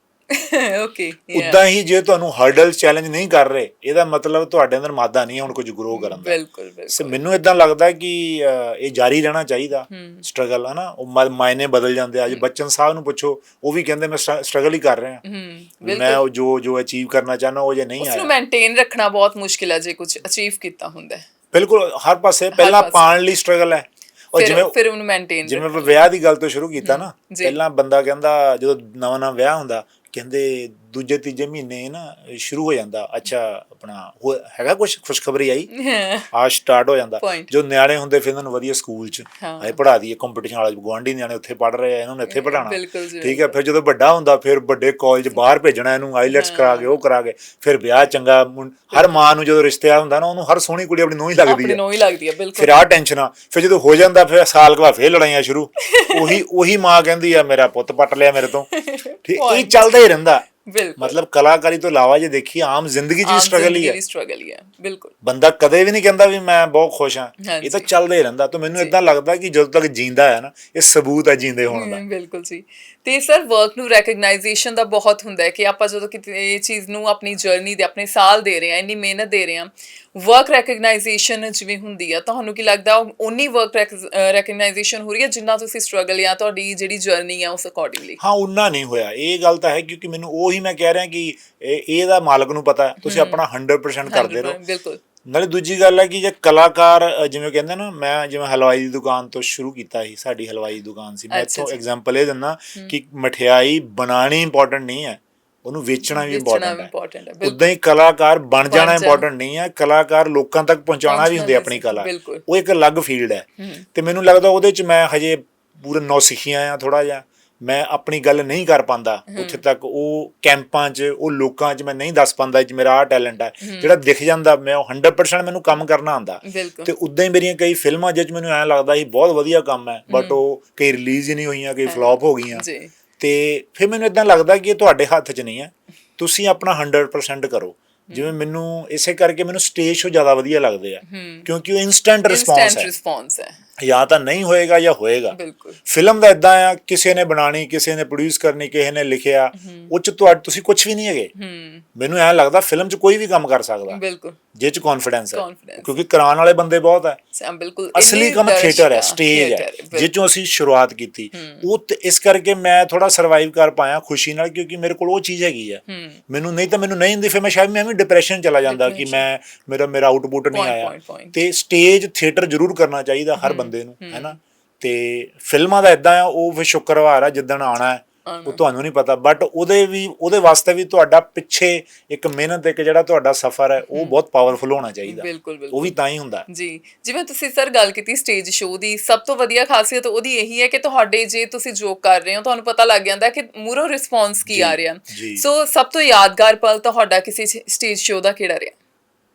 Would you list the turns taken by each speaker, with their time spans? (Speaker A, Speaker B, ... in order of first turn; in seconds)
Speaker A: 0.3-1.6, 5.9-7.2, 9.9-10.2, 15.2-16.2, 18.0-21.2, 22.5-23.2, 24.4-26.0, 26.8-27.6, 35.7-36.3, 37.2-37.5, 39.4-39.8, 42.3-43.5, 46.3-47.0, 51.5-52.8, 55.8-56.4, 58.7-59.9, 60.6-61.2, 63.2-65.1, 67.4-67.9, 71.7-88.2, 93.0-93.4, 94.1-95.0, 101.3-101.8, 106.1-107.6, 108.7-109.3, 111.1-112.5, 113.6-113.9, 119.3-119.6, 123.6-124.0, 126.5-126.9, 130.1-130.4, 131.9-132.9, 141.0-141.5, 142.3-143.6, 145.3-145.8, 149.6-149.9, 151.3-151.9, 153.9-154.4, 155.3-156.0, 157.3-160.1, 161.3-161.7, 165.9-166.2, 168.6-169.2, 170.5-171.4, 173.4-174.4, 178.3-178.6, 183.9-184.2, 185.0-186.0, 186.5-198.8
Speaker B: 1.3-6.4, 6.9-15.2, 15.8-18.3, 21.5-24.8, 25.4-35.7, 36.3-51.8, 52.6-58.7, 59.2-60.5, 61.0-64.0, 65.2-72.0, 88.2-94.6, 95.2-132.7, 133.2-142.9, 143.8-151.3, 151.9-154.0, 154.5-157.2, 157.9-186.5, 194.4-195.4